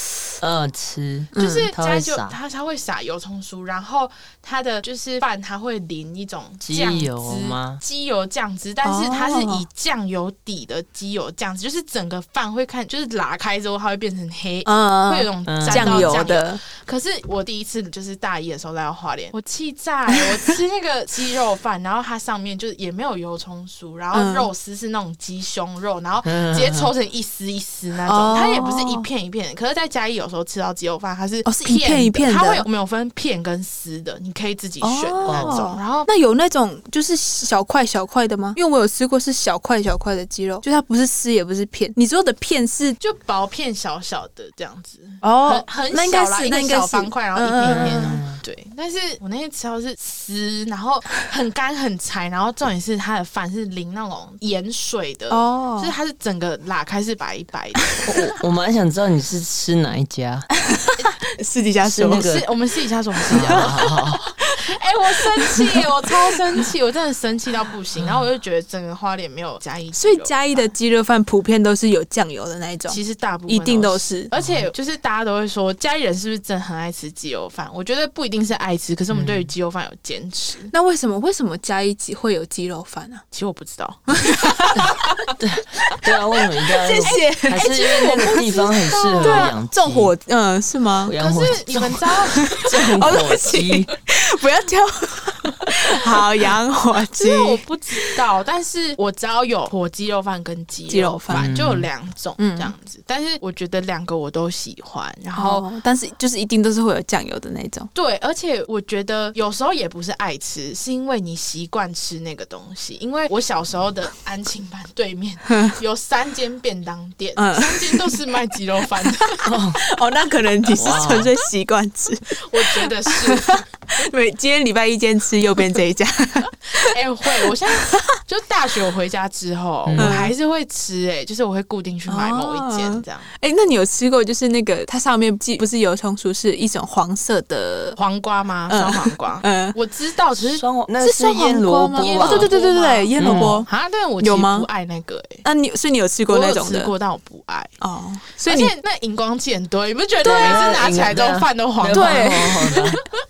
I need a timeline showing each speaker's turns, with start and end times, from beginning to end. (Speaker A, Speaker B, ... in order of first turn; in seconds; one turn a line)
Speaker A: 0.4-2.4
Speaker B: 1.3-1.7
Speaker C: 1.3-36.1
Speaker A: 6.6-7.8
Speaker B: 8.8-9.7
Speaker B: 14.6-16.6
Speaker A: 15.4-16.2
Speaker B: 24.1-24.5
Speaker A: 26.2-26.9
Speaker B: 28.1-29.1
Speaker B: 31.4-32.6
Speaker B: 34.8-43.0
Speaker A: 35.2-35.6
Speaker C: 43.0-57.9
Speaker B: 45.2-48.2
Speaker A: 47.6-48.4
Speaker B: 55.3-55.9
Speaker A: 58.0-60.5
Speaker B: 60.8-62.4
Speaker A: 61.8-62.5
Speaker C: 62.2-70.7
Speaker B: 63.3-63.8
Speaker A: 63.3-64.3
Speaker B: 65.3-65.8
Speaker A: 67.9-68.2
Speaker B: 69.9-74.3
Speaker C: 72.9-80.7
Speaker A: 74.3-74.7
Speaker A: 79.1-79.5
Speaker B: 80.7-83.2
Speaker C: 83.3-84.8
Speaker B: 84.1-85.1
Speaker A: 85.4-90.1
Speaker B: 86.8-88.5
Speaker C: 87.0-89.5
Speaker B: 89.2-91.1
Speaker A: 91.0-92.0
Speaker C: 91.2-92.9
Speaker B: 91.8-98.2
Speaker A: 92.7-93.9
Speaker C: 97.0-105.7
Speaker B: 100.9-101.5
Speaker A: 101.3-101.9
Speaker B: 102.4-102.7
Speaker B: 105.3-107.9
Speaker C: 107.9-119.5
Speaker B: 117.3-118.2
Speaker A: 119.4-119.8
Speaker B: 119.9-127.9
Speaker A: 120.8-121.3
Speaker C: 122.4-123.6
Speaker C: 126.7-133.3
Speaker A: 129.8-130.3
Speaker B: 130.0-130.3
Speaker B: 132.1-138.0
Speaker C: 137.9-140.7
Speaker B: 138.7-139.8
Speaker A: 140.4-142.5
Speaker B: 141.0-143.7
Speaker C: 142.0-145.4
Speaker A: 143.2-143.6
Speaker B: 144.2-144.7
Speaker B: 145.4-146.9
Speaker C: 146.3-147.8
Speaker B: 147.8-148.7
Speaker C: 148.4-152.9
Speaker A: 150.2-153.0
Speaker B: 151.9-152.9